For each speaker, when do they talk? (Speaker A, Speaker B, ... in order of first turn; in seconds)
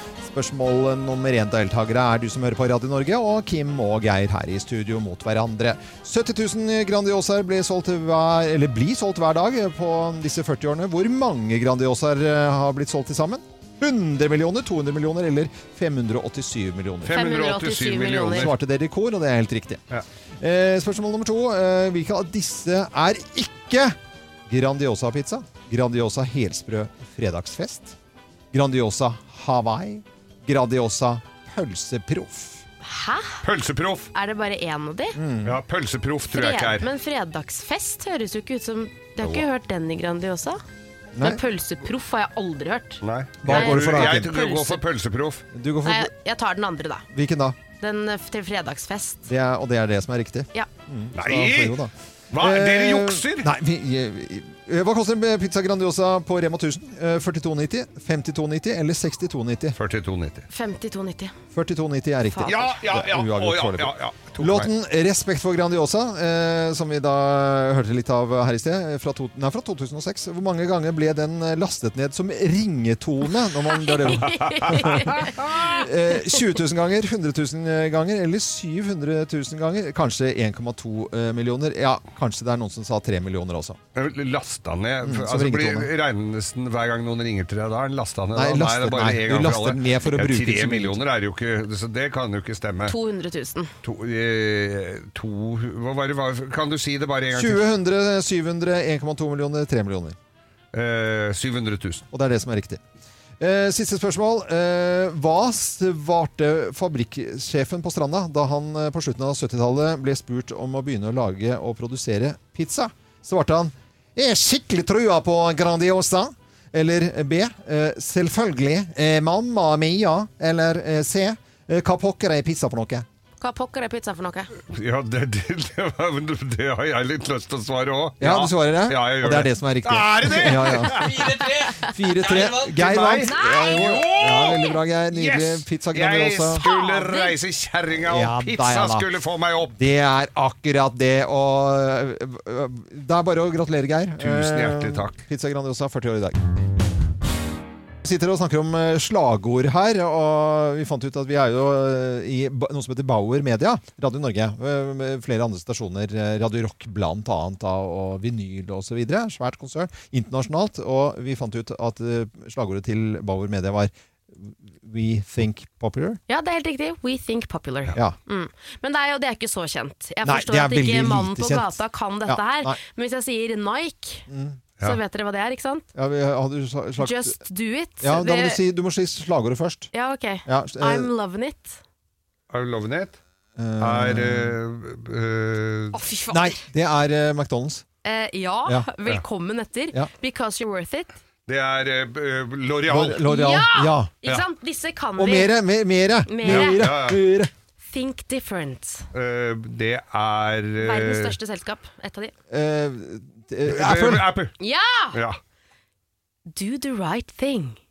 Speaker A: 0.2-17.2, 18.3-19.8, 20.4-24.0, 24.5-27.9, 28.5-32.6, 35.1-35.6, 41.1-41.4, 43.4-44.3, 45.5-46.1, 47.1-47.6, 49.3-59.8, 61.5-83.8, 85.0-85.9, 88.3-91.0, 97.3-100.2, 102.1-102.8, 103.4-123.0, 128.2-136.6, 138.0-139.0, 139.7-146.4, 148.0-166.2, 170.2-172.8, 174.3-174.6, 175.9-177.4, 178.0-179.9, 180.4-181.1, 183.6-184.6, 186.3-187.8, 192.9-194.1, 195.2-197.5, 202.5-204.3
Speaker B: 17.1-18.5, 32.8-33.4, 34.1-35.2, 36.3-40.6, 41.2-44.8, 45.8-47.0, 47.8-49.3, 60.5-61.3, 62.3-62.7, 73.7-75.8, 92.8-93.7, 123.4-124.5, 133.2-133.8, 136.6-137.3, 166.3-174.2, 174.8-175.8, 177.0-178.6, 179.9-181.8, 185.9-186.6, 188.0-191.2, 193.1-195.5, 196.3-196.8, 197.8-199.1, 200.8-202.3, 204.6-205.2, 206.5-207.8
Speaker C: 17.1-18.5, 33.4-34.1, 35.4-36.9, 43.0-45.4, 51.1-51.8, 52.3-53.5, 59.8-60.5, 62.5-64.7, 74.4-75.7, 83.9-92.9, 93.8-97.6, 100.7-102.0, 124.7-131.4, 132.2-139.8, 144.2-145.2, 182.5-183.2, 183.8-185.9, 191.5-193.2, 196.4-197.2, 199.1-201.4, 203.7-204.5, 205.1-205.4